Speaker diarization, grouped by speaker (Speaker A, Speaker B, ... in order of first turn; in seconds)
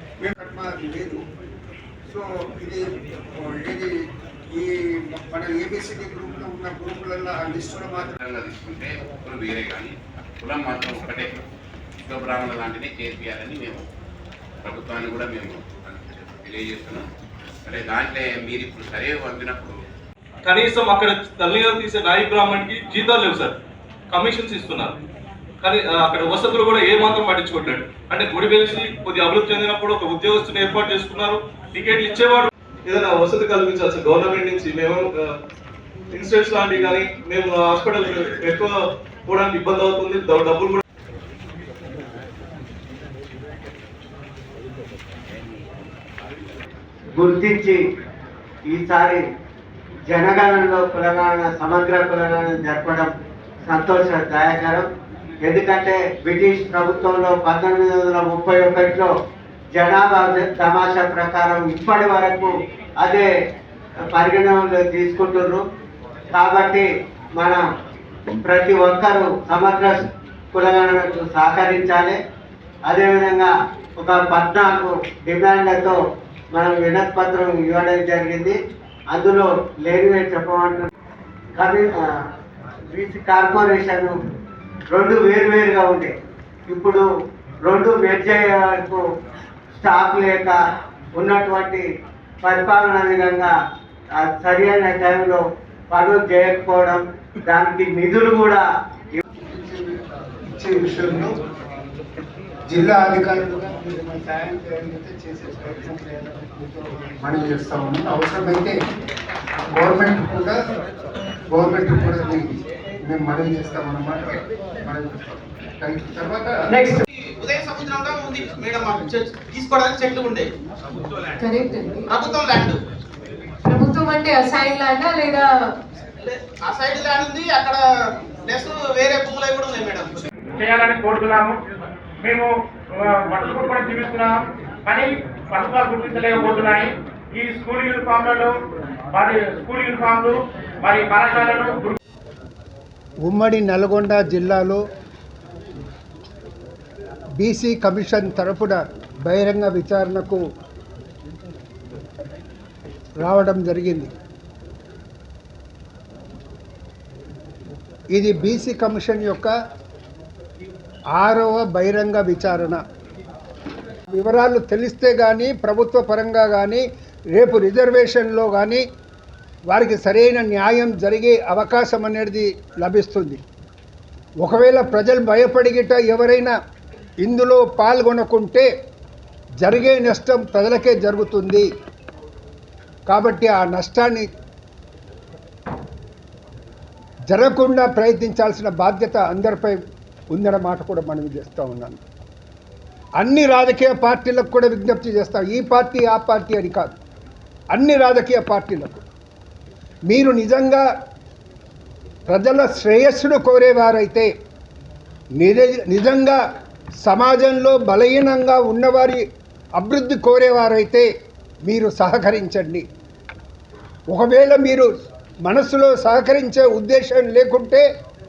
Speaker A: 0.2-1.2, 2.1-3.9, 4.5-8.2, 99.5-100.0, 100.5-101.3, 102.7-108.8, 109.7-110.6, 111.5-116.5, 143.3-144.8, 147.4-150.4, 153.2-154.1, 158.2-159.5, 161.2-162.8, 164.1-166.8, 167.4-168.8, 169.7-173.4, 174.4-176.5, 177.2-178.7, 179.6-181.7, 183.1-184.3, 187.3-189.8, 190.3-192.0, 193.2-197.0, 197.8-199.0, 200.1-200.8, 202.3-204.3, 205.4-206.4, 207.0-209.2, 209.8-211.1, 211.7-212.8, 214.1-214.9, 215.5-217.8
Speaker B: 8.2-11.4, 12.0-13.8, 14.6-17.1, 17.7-19.8
Speaker C: 20.4-23.6, 24.1-24.9, 25.6-35.4, 36.1-38.7, 39.3-40.8
Speaker D: 47.1-47.8, 48.7-49.2, 50.1-53.1, 53.6-54.9, 55.4-59.1, 59.7-63.3, 64.1-65.6, 66.3-66.9, 68.4-72.2, 72.9-76.0, 76.5-78.6, 79.1-80.9, 81.6-81.9, 82.9-84.2, 84.9-86.1, 86.7-87.0, 87.7-89.0, 89.8-90.6, 91.2-91.8, 92.4-93.5, 94.2-99.2
Speaker E: 116.7-117.0, 121.4-122.1, 123.7-125.5
Speaker F: 117.1-120.5, 122.1-122.8, 126.2-127.8, 128.4-130.3
Speaker G: 130.6-131.6, 132.2-138.5, 139.1-142.0